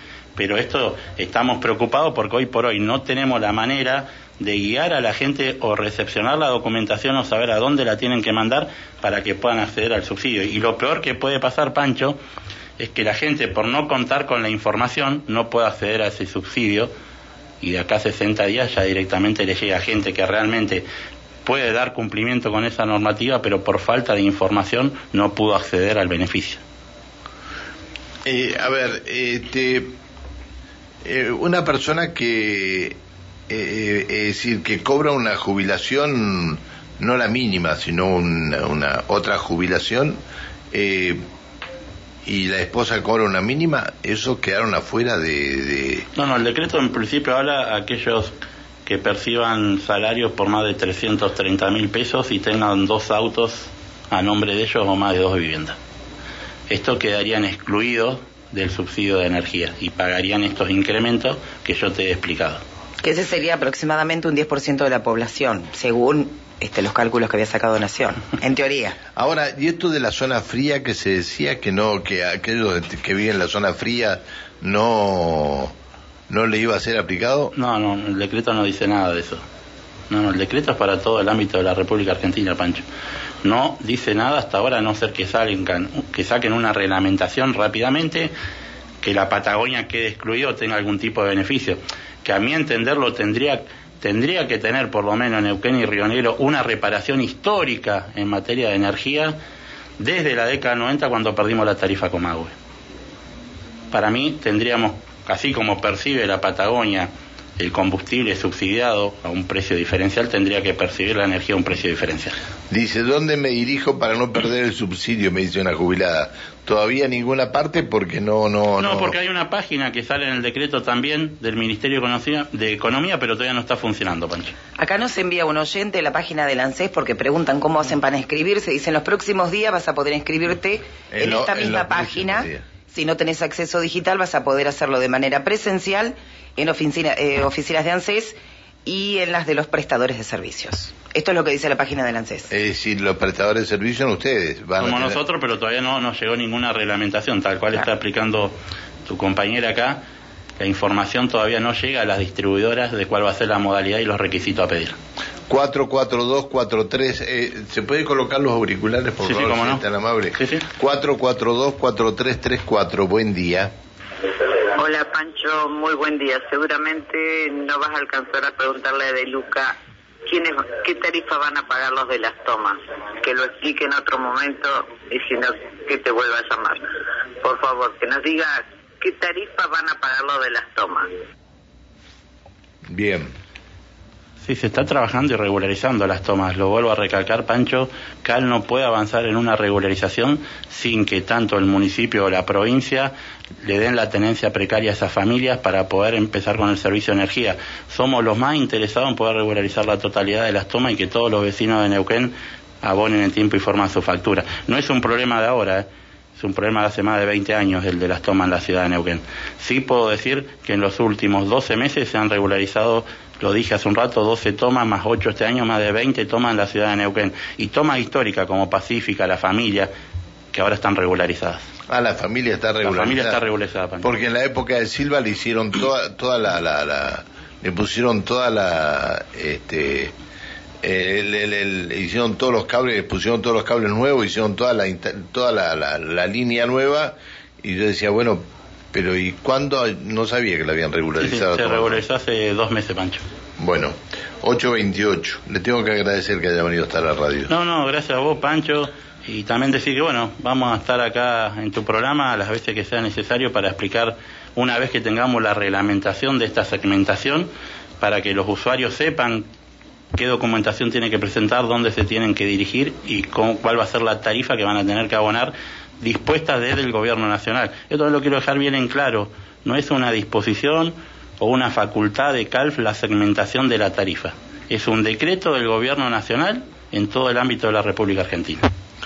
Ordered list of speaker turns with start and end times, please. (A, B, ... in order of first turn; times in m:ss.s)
0:00.4-0:12.2 A
0:12.8-0:16.9 A
0:17.6-0:20.8 A
0:21.4-0:26.6 A
0:28.2-0:29.9 B
0:31.0-0:33.0 B
0:33.5-0:40.2 B
0:40.7-0:41.2 B
0:42.2-0:46.1 B
0:46.1-0:48.4 A
0:48.9-0:55.8 A
0:56.7-1:02.6 A
1:03.0-1:09.0 C
1:09.2-1:15.7 B
1:16.3-1:17.5 B
1:17.5-1:19.4 A
1:20.1-1:22.8 A
1:23.4-1:28.3 A
1:29.0-1:39.4 A
1:40.0-1:42.5 A
1:43.9-1:52.4 A
1:52.7-1:59.1 B
1:58.8-2:04.5 A
2:04.8-2:22.5 C
2:11.1-2:12.6 B
2:22.5-2:25.2 B
2:24.8-2:28.5 A
2:29.1-2:30.0 A
2:30.6-2:35.0 A
2:35.5-2:43.7 B
2:39.2-2:40.7 A
2:44.7-2:56.8 D
2:57.4-3:01.1 D
3:02.9-3:03.3 B
3:04.4-3:39.9 A
3:40.5-3:41.7 A
3:41.9-3:43.4 B
3:42.8-3:44.1 A
3:44.0-3:50.1 B
3:50.8-4:02.0 B
4:01.2-4:03.2 A
4:03.6-4:07.5 B
4:07.5-4:19.5 A
4:20.2-4:38.6 A